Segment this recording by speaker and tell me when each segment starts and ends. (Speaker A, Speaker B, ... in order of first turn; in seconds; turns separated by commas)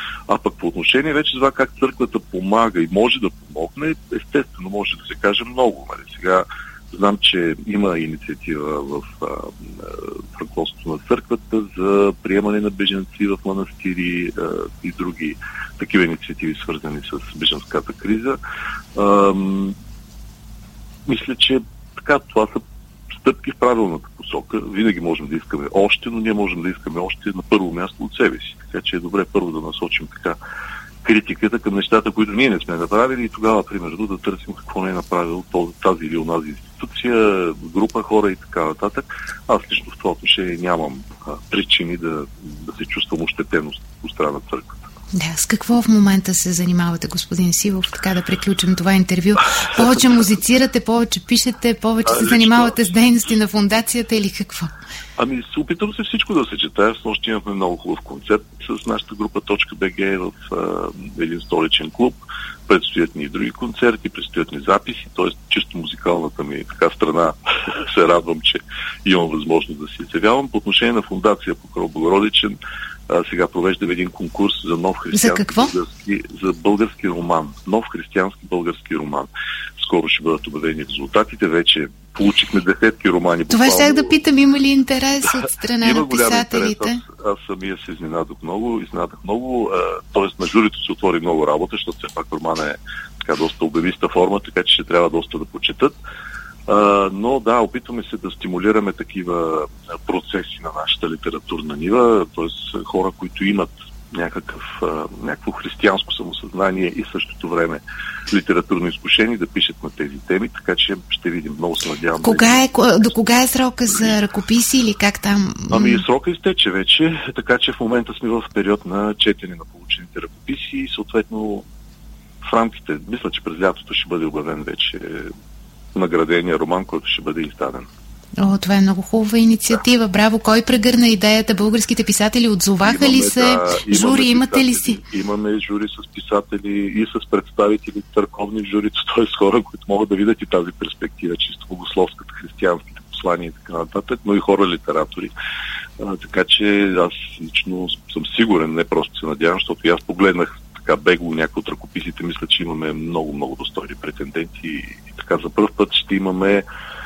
Speaker A: 0.3-18.4, Speaker A: 18.9-19.8, Speaker A: 21.1-30.4, Speaker A: 31.0-44.8, Speaker B: 45.1-54.7, Speaker A: 52.0-52.9, Speaker A: 55.2-72.6, Speaker A: 73.1-84.1, Speaker B: 75.1-75.7, Speaker B: 83.5-87.0, Speaker A: 85.8-96.0, Speaker A: 96.7-113.1, Speaker B: 112.2-116.0, Speaker A: 113.9-114.2, Speaker A: 115.7-121.7, Speaker A: 122.4-125.3, Speaker A: 125.9-127.9, Speaker B: 128.4-135.0, Speaker A: 132.8-145.3, Speaker A: 146.0-156.6